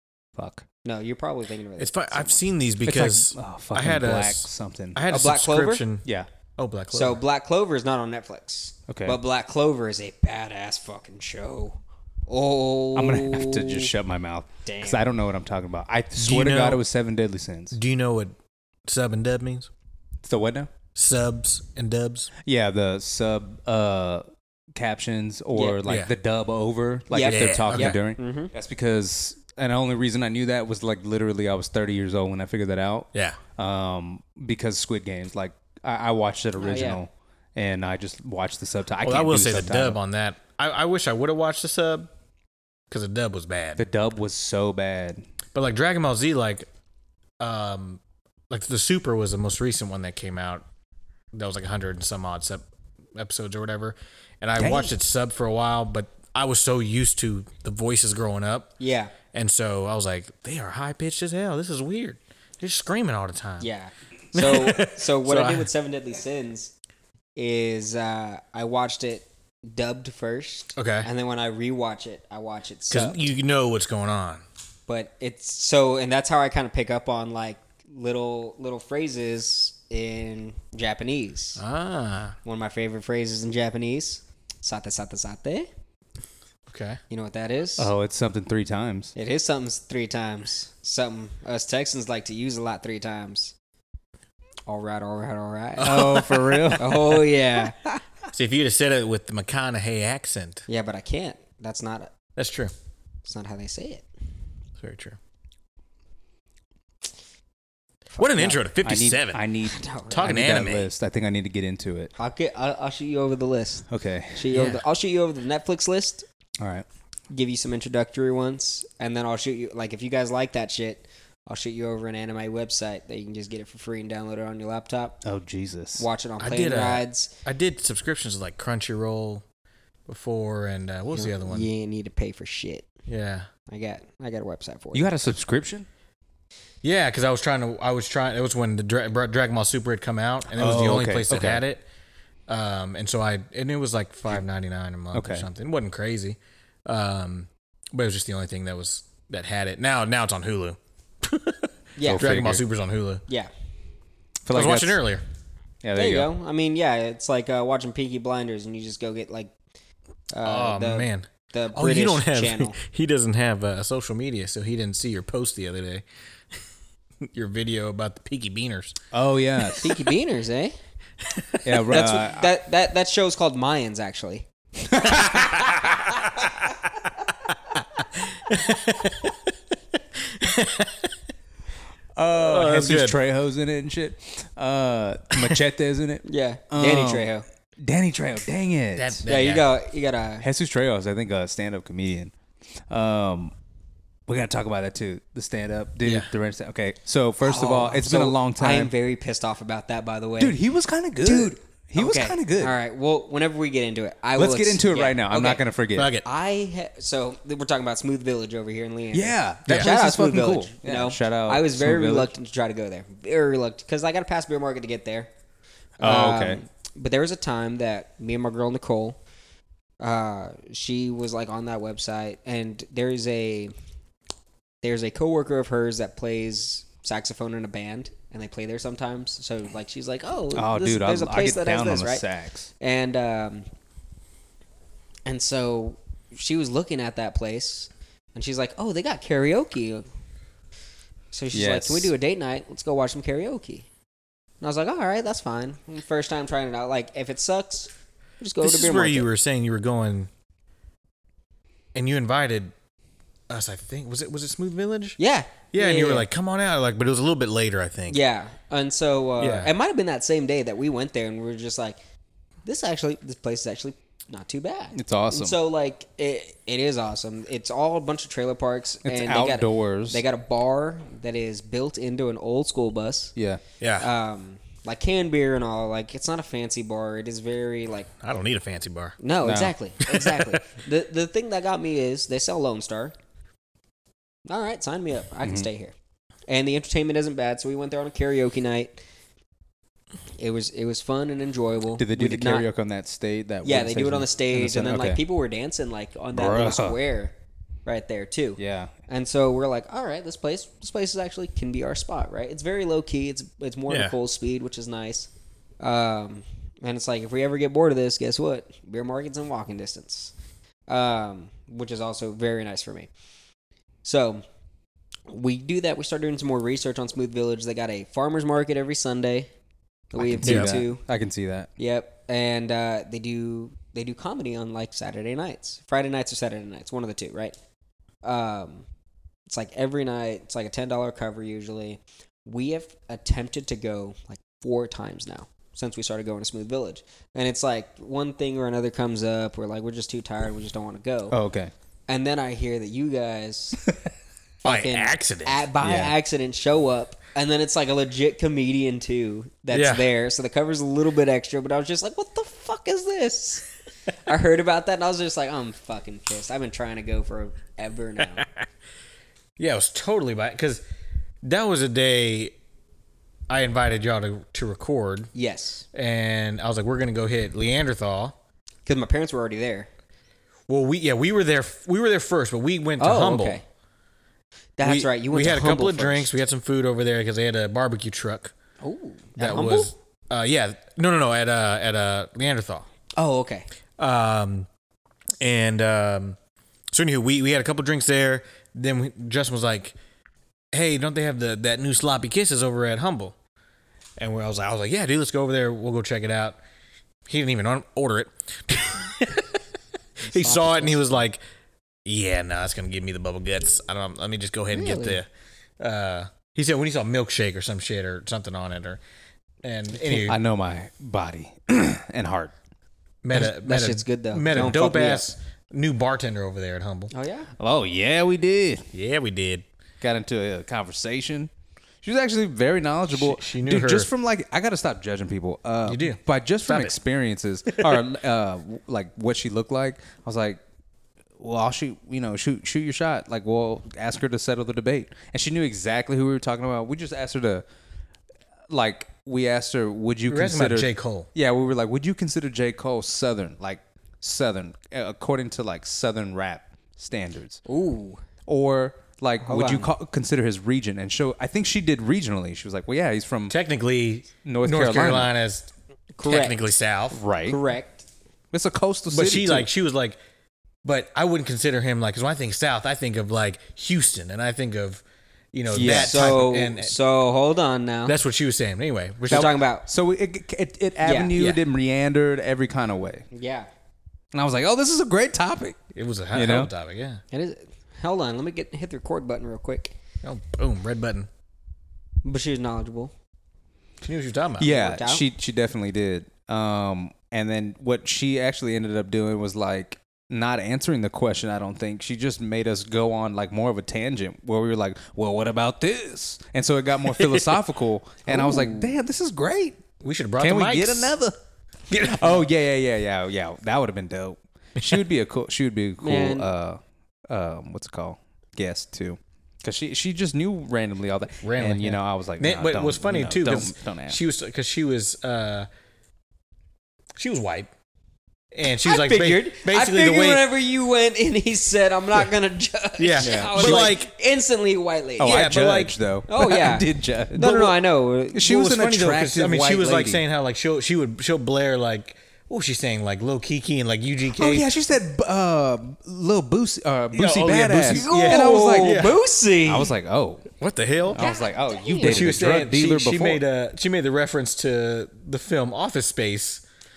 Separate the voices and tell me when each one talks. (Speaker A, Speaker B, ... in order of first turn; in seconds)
Speaker A: 0.3-0.7, 2.8-5.0, 8.9-9.2, 12.9-17.8, 20.2-20.7, 22.4-40.0, 43.8-45.2, 54.6-54.9, 87.8-89.1, 95.8-98.0, 108.8-112.1, 113.9-114.7, 116.6-116.8, 125.2-126.1, 134.9-135.9, 140.5-141.6, 145.1-145.5, 152.0-152.6, 154.4-155.0, 155.8-156.3, 169.1-170.0, 171.6-172.5, 182.1-189.2, 190.4-192.3, 192.9-193.5, 194.3-198.9, 200.4-202.7, 204.3-206.1, 209.1-212.3, 216.0-216.6, 230.5-232.7, 241.5-242.1, 264.9-265.6, 269.0-270.2, 273.4-273.6, 279.4-279.7, 285.4-285.7, 292.0-295.2, 296.3-297.0, 298.6-298.9, 320.1-321.7, 341.3-341.7, 345.8-346.1, 409.9-412.5, 417.6-418.8, 420.0-421.5, 422.0-430.6, 431.4-437.6, 438.7-447.6, 448.4-453.5, 454.4-455.3, 457.1-457.6, 458.5-459.7, 465.7-466.5, 469.3-473.2, 474.3-475.8, 476.3-476.7, 484.6-499.8, 500.4-501.4, 502.0-514.2, 523.2-523.9, 525.2-527.8, 528.3-530.2, 534.3-540.5, 541.1-543.4
Speaker B: 0.8-2.4, 5.1-5.8, 6.9-13.9, 14.7-15.1, 25.5-25.8, 27.1-28.5, 36.6-37.0, 58.8-59.1, 63.6-66.7, 67.3-73.3, 74.9-81.6, 82.4-85.7, 87.1-87.9, 89.2-93.5, 94.7-97.8, 100.7-102.1, 103.2-104.1, 108.1-108.6, 109.6-110.5, 112.2-116.2, 117.3-125.2, 126.0-127.3, 131.1-132.9, 133.7-135.3, 152.0-152.4, 155.9-159.5, 160.3-162.8, 169.8-170.7, 171.8-175.5, 186.2-187.4, 189.3-190.4, 197.4-200.6, 201.2-205.6, 206.2-215.3, 216.0-219.2, 220.0-223.7, 224.8-232.2, 232.8-233.7, 235.2-240.1, 241.3-243.9, 244.6-249.3, 255.2-256.3, 258.1-262.0, 262.6-273.3, 274.0-278.1, 279.2-283.1, 284.4-285.9, 286.5-289.0, 290.4-292.6, 293.6-297.3, 297.9-305.3, 305.8-310.3, 310.9-313.1, 314.0-314.4, 315.3-319.5, 320.1-321.0, 321.8-327.5, 328.2-328.9, 329.5-341.4, 342.1-343.8, 344.6-353.7, 354.2-358.4, 365.3-365.9, 368.9-369.9, 373.0-373.6, 374.8-376.3, 378.8-379.9, 383.2-383.7, 400.2-401.2, 404.7-405.2, 413.3-415.3, 417.1-417.5, 447.7-448.2, 449.4-449.9, 456.1-456.6, 457.4-458.1, 465.8-468.2, 469.3-469.9, 471.0-471.5, 473.3-473.7, 477.3-479.9, 482.2-483.1, 484.6-485.2, 498.2-498.9, 506.0-506.5, 518.8-525.4, 526.3-528.8, 537.8-539.9, 541.1-542.4
Speaker C: 1.8-6.0, 6.6-7.2, 16.1-16.8, 17.7-18.3, 18.9-19.7, 20.9-22.3, 25.8-26.1, 27.2-28.0, 33.1-33.4, 39.0-42.1, 42.9-43.8, 45.5-46.7, 47.4-50.6, 51.3-58.7, 59.3-63.7, 64.3-65.7, 70.8-71.1, 72.9-74.4, 81.6-82.3, 86.7-87.0, 95.8-96.6, 98.3-100.6, 102.3-102.7, 104.8-105.2, 108.2-109.4, 110.1-110.9, 114.5-114.8, 126.4-129.4, 130.1-131.7, 133.1-133.5, 136.8-141.8, 142.5-153.2, 154.5-155.2, 160.4-166.0, 167.2-168.9, 175.0-176.5, 177.7-179.3, 180.2-181.1, 182.3-183.2, 188.9-189.7, 196.0-196.3, 205.9-206.2, 248.6-250.3, 251.9-252.7, 253.5-255.2, 255.7-258.2, 259.4-259.7, 273.8-274.1, 278.2-279.2, 280.0-280.5, 303.9-304.1, 320.4-320.7, 344.6-345.6, 349.7-350.0, 359.6-360.8, 361.4-362.5, 363.5-365.3, 365.9-368.4, 370.7-373.6, 374.8-378.5, 379.4-382.9, 384.0-384.7, 385.4-386.4, 386.9-389.9, 390.7-393.3, 394.2-396.6, 397.3-399.5, 400.2-401.4, 402.0-405.3, 405.8-409.0, 409.6-410.4, 413.2-417.1, 418.9-419.6, 423.1-424.1, 425.8-426.9, 427.7-428.0, 440.3-441.3, 453.5-455.7, 456.2-457.2, 459.1-460.2, 460.8-467.0, 468.1-469.5, 475.9-477.2, 480.2-481.3, 484.0-484.7, 500.0-501.1, 501.9-502.3, 511.4-515.7, 517.2-517.7, 518.5-520.4, 523.0-524.1, 525.2-526.0, 528.5-534.7, 537.1-539.2, 540.6-541.2, 542.0-546.6